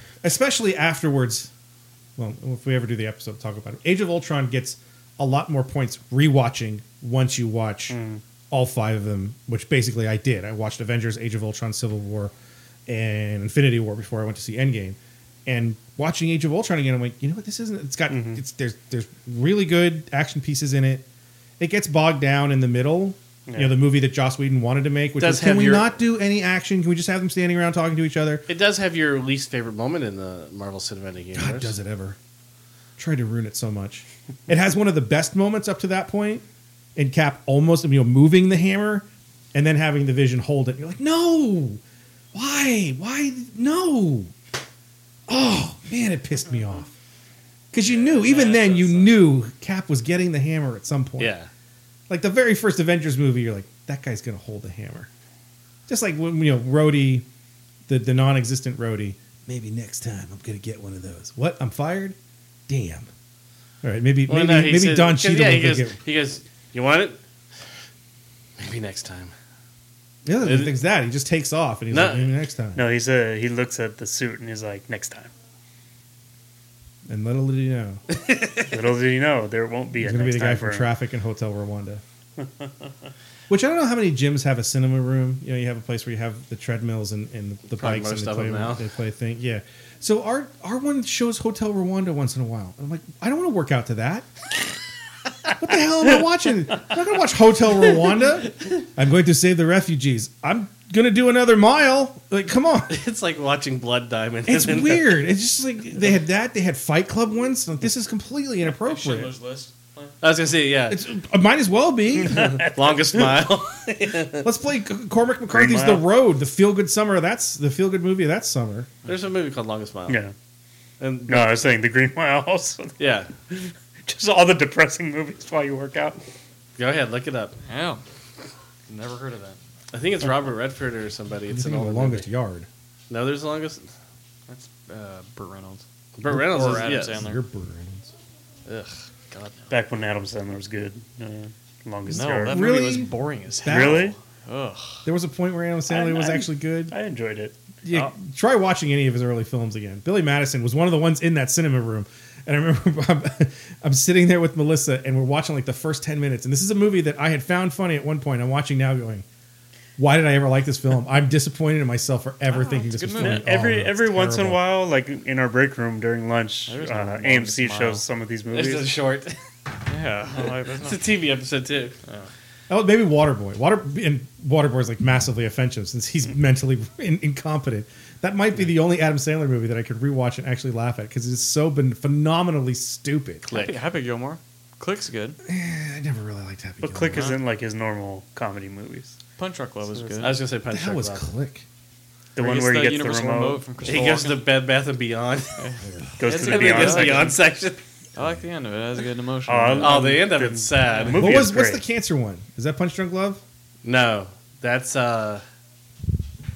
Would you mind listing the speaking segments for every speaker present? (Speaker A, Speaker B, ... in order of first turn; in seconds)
Speaker A: 0.2-1.5, 2.2-8.0, 8.5-12.3, 12.9-21.1, 21.6-28.4, 31.4-32.2, 33.0-36.4, 37.0-41.8, 42.3-44.3, 45.3-46.9, 47.7-51.4, 52.1-55.1, 55.9-57.3, 57.9-62.2, 62.7-63.1, 63.8-66.0, 70.3-72.8, 77.1-78.0, 80.0-82.0, 83.5-94.3, 95.6-103.0, 104.5-109.3, 110.9-112.5, 114.4-118.9, 131.5-132.7, 136.3-138.1, 142.5-144.1, 145.1-146.9, 147.8-159.2, 160.0-164.6, 172.7-183.5, 185.4-187.3, 190.7-191.7, 201.1-203.4
Speaker B: 7.9-8.2, 18.1-18.4, 23.5-23.8, 72.8-75.3, 78.7-80.9, 82.4-82.9, 112.2-113.2, 115.5-116.1, 120.1-120.3, 121.3-123.0, 123.5-126.2, 139.7-142.7, 143.7-144.2, 145.9-147.6, 163.2-168.9, 186.8-189.2, 189.9-190.3, 192.4-193.6, 196.2-197.4, 199.5-201.8
Speaker C: 25.2-26.0, 28.5-31.8, 51.2-51.5, 64.3-67.2, 68.6-69.3, 70.4-70.7, 71.9-72.3, 78.1-78.7, 87.7-88.9, 102.9-105.2, 110.2-111.0, 112.3-114.5, 119.0-120.2, 121.0-121.5, 123.0-123.3, 126.8-127.6, 129.9-132.3, 133.1-133.9, 136.2-137.2, 138.7-138.9, 168.5-169.4, 170.3-172.0, 183.5-183.8, 190.2-191.3, 193.8-195.6, 196.4-197.8, 199.8-201.3, 203.8-205.4
Speaker D: 47.9-49.2, 108.7-110.2, 127.7-128.0, 128.9-129.6, 134.5-135.8, 136.4-137.4, 139.3-139.7, 142.1-145.0, 162.5-163.5, 166.7-168.0, 169.9-171.1, 183.5-185.4, 187.1-187.4, 189.4-190.4, 192.4-194.4, 195.6-197.4, 198.2-201.2